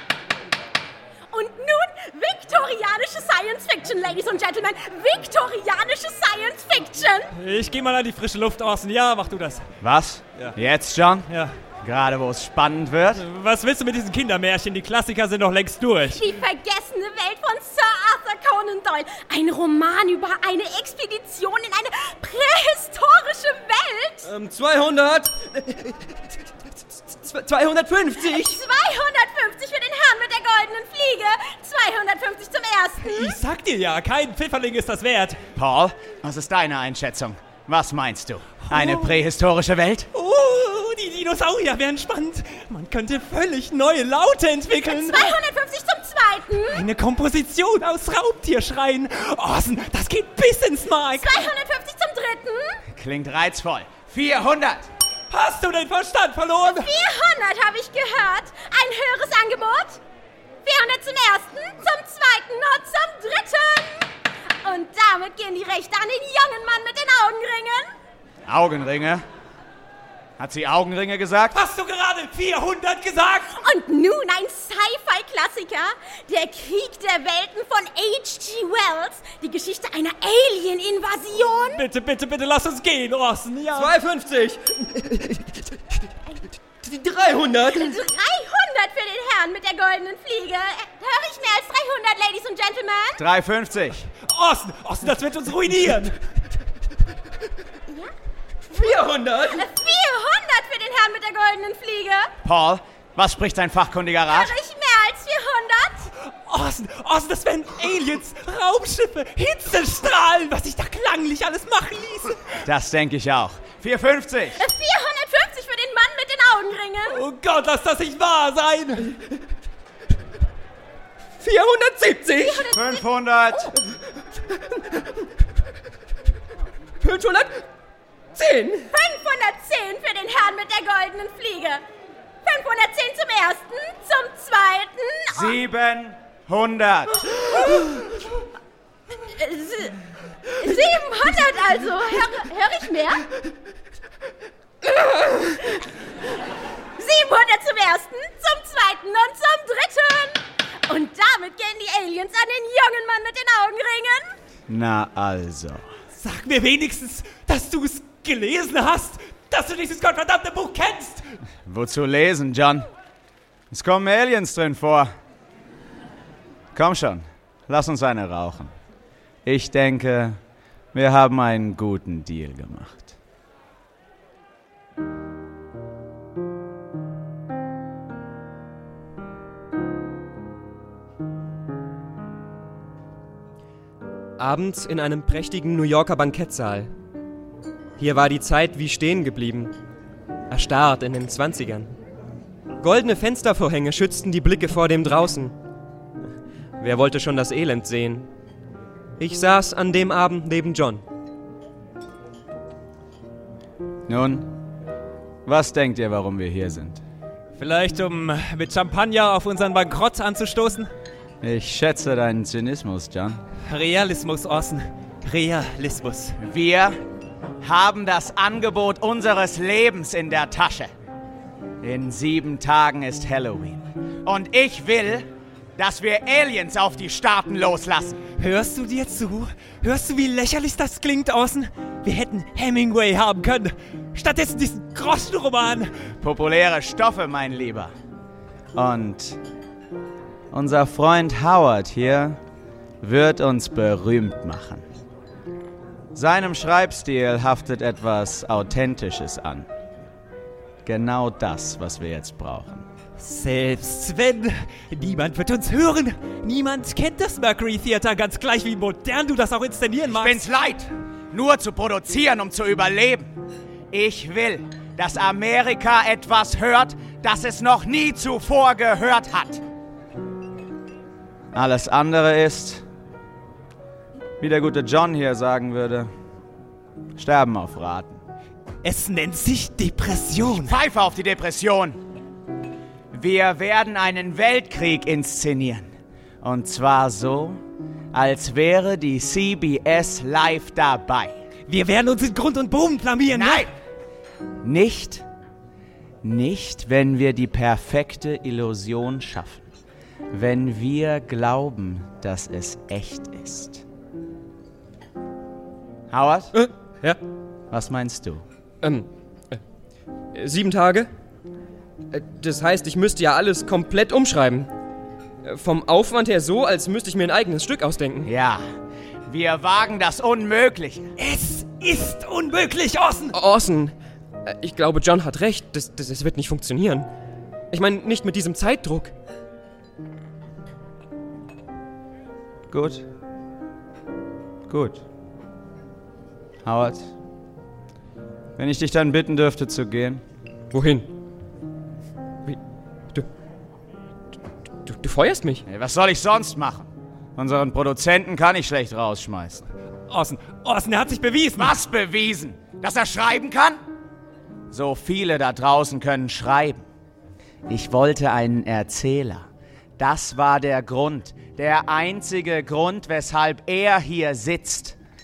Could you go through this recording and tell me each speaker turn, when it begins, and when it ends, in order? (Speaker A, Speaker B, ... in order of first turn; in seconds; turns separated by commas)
Speaker A: 1.3-7.3, Speaker B: 7.4-9.6, Speaker C: 9.8-11.3, Speaker B: 11.3-11.6, Speaker C: 11.8-13.2, Speaker B: 13.2-16.3, Speaker A: 16.1-24.3, Speaker D: 24.2-26.5, Speaker D: 27.1-28.6, Speaker A: 28.2-33.4, Speaker B: 33.0-35.4, Speaker C: 35.6-40.1, Speaker B: 38.7-39.2, Speaker B: 40.1-45.4, Speaker A: 44.9-46.9, Speaker B: 46.7-51.5, Speaker A: 51.2-52.8, Speaker C: 52.9-54.9, Speaker B: 55.3-56.9, Speaker A: 56.6-60.0, Speaker A: 60.6-67.9, Speaker C: 68.5-69.2, Speaker C: 70.4-71.6, Speaker B: 71.5-73.6, Speaker A: 73.6-81.8, Speaker B: 81.7-83.9, Speaker D: 83.7-86.0, Speaker D: 86.8-87.9, Speaker A: 87.7-93.2, Speaker C: 93.2-94.1, Speaker B: 94.3-96.2, Speaker A: 97.9-98.1, Speaker D: 98.7-99.6, Speaker A: 99.5-102.3, Speaker C: 102.4-104.5, Speaker A: 104.3-106.1, Speaker B: 106.5-112.6, Speaker C: 112.7-114.6, Speaker A: 114.6-117.2, Speaker B: 117.1-119.1, Speaker D: 121.4-122.7, Speaker A: 122.4-123.0, Speaker C: 122.7-123.7, Speaker D: 124.3-125.2, Speaker D: 127.0-127.6, Speaker D: 128.3-128.9, Speaker A: 128.9-131.8, Speaker A: 132.4-135.6, Speaker C: 135.3-137.5, Speaker A: 139.1-143.3, Speaker A: 147.0-154.4, Speaker C: 154.7-155.9, Speaker B: 156.2-161.3, Speaker C: 161.7-162.9, Speaker C: 163.7-165.1, Speaker C: 166.8-168.7, Speaker C: 169.4-170.4, Speaker C: 170.9-173.2, Speaker D: 184.4-186.9, Speaker D: 188.0-189.8, Speaker D: 190.5-191.9, Speaker D: 192.8-195.6, Speaker D: 196.8-198.3, Speaker D: 199.2-201.0, Speaker C: 204.1-204.5, Speaker C: 205.4-207.0, Speaker B: 207.6-210.9, Speaker C: 211.4-213.4, Speaker B: 213.7-216.4, Speaker C: 216.4-217.0, Speaker C: 217.6-220.9, Speaker C: 221.8-228.2, Speaker B: 228.4-236.1, Speaker C: 236.2-237.9, Speaker C: 238.7-239.4, Speaker C: 240.5-242.4, Speaker C: 243.0-244.8, Speaker C: 246.1-249.7, Speaker C: 250.8-252.9, Speaker B: 253.2-260.4, Speaker C: 260.1-263.3, Speaker C: 263.9-269.6, Speaker C: 271.5-272.9, Speaker C: 274.4-276.1, Speaker C: 277.2-278.2, Speaker B: 278.8-280.8, Speaker C: 280.5-282.0, Speaker C: 283.1-287.6, Speaker C: 288.1-291.4, Speaker B: 291.7-293.7, Speaker C: 293.3-293.7, Speaker C: 294.6-295.2, Speaker C: 296.2-299.7, Speaker C: 300.3-303.8, Speaker C: 306.1-306.5, Speaker D: 306.5-307.2, Speaker C: 307.7-308.4, Speaker D: 308.8-309.6, Speaker D: 310.3-311.1, Speaker D: 312.1-314.7, Speaker D: 315.4-318.3, Speaker C: 318.2-318.6, Speaker C: 319.3-321.1, Speaker B: 321.2-323.3, Speaker D: 323.3-323.9, Speaker D: 324.4-327.1, Speaker D: 327.7-329.1, Speaker C: 332.7-333.1, Speaker C: 334.7-335.0, Speaker C: 336.6-337.1, Speaker C: 338.6-340.2, Speaker D: 340.7-341.1, Speaker D: 344.9-345.6, Speaker C: 345.6-349.6, Speaker B: 350.1-351.8, Speaker C: 351.6-353.8, Speaker C: 354.7-356.9, Speaker C: 357.7-365.0